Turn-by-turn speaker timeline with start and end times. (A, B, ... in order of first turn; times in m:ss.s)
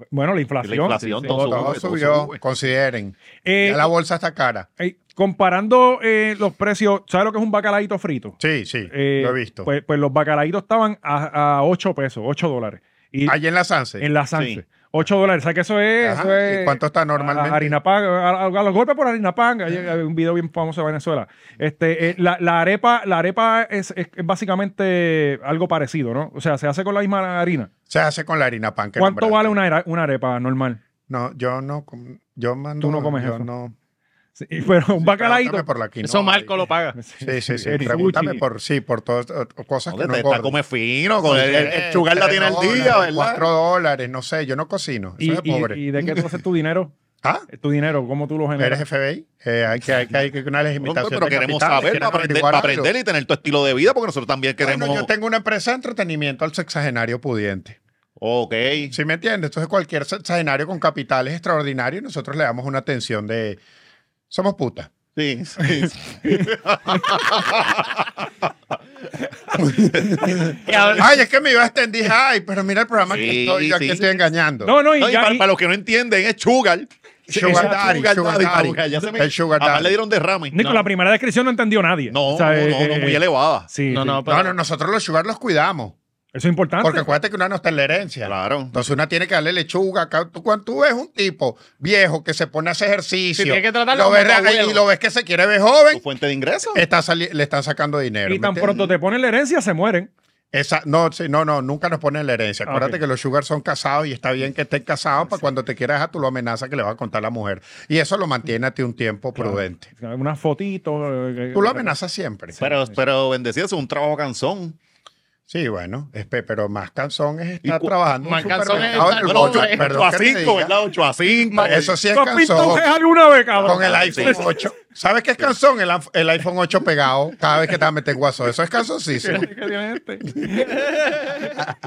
0:00.1-0:01.8 A
0:00.6-0:02.4 B
0:01.3-0:04.7 C
0:03.4-0:03.9 A
0:04.8-0:08.4 A
0:08.4-0:09.7 C
0:08.9-0:13.4 A
0:13.3-0:14.0 C
0:14.0-0:27.7 A
0:14.3-0:14.6 B
0:16.0-0:17.8 C
0:27.9-0:29.6 C
0:29.0-0:30.8 A
0:31.1-0:33.8 C
0:32.8-0:33.5 A
0:34.4-0:35.7 A
0:35.0-0:36.6 C
0:36.0-0:37.0 D
0:36.9-0:38.4 A
0:37.2-0:40.5 C
0:39.9-0:43.5 B
0:41.2-0:45.8 C
0:45.2-0:46.9 A
0:47.5-0:48.8 A
0:48.6-0:52.9 C
0:50.8-0:55.1 B
0:54.6-0:57.8 C
0:58.2-0:58.9 B
0:58.9-1:03.6 C
1:04.3-1:04.9 C
1:05.2-1:08.1 B
1:09.6-1:14.8 C
1:10.0-1:11.0 B
1:10.7-1:11.1 D
1:13.1-1:14.0 B
1:14.6-1:15.5 A
1:15.0-1:16.9 B
1:17.3-1:20.0 C
1:17.3-1:18.0 A
1:17.4-1:20.6 B
1:20.5-1:24.2 A
1:20.6-1:20.8 D
1:22.1-1:23.7 B
1:23.9-1:24.6 D
1:24.3-1:26.0 C
1:26.4-1:27.1 A
1:26.8-1:36.0 C
1:28.2-1:28.7 B
1:33.4-1:34.8 D
1:35.9-1:36.8 B
1:36.7-1:38.9 C
1:38.3-1:40.1 A
1:40.5-1:49.9 C
1:42.7-1:43.0 A
1:49.4-1:52.0 A
1:51.5-1:52.6 C
1:52.6-1:52.8 A
1:52.6-1:54.8 B
1:55.5-2:00.8 C
1:57.6-1:57.9 B
1:58.2-2:00.0 D
1:58.4-2:02.0 B
2:01.5-2:01.8 D
2:01.6-2:02.9 C
2:02.1-2:04.6 A
2:03.6-2:04.4 B
2:03.6-2:09.5 C
2:09.2-2:10.8 A
2:11.0-2:11.3 D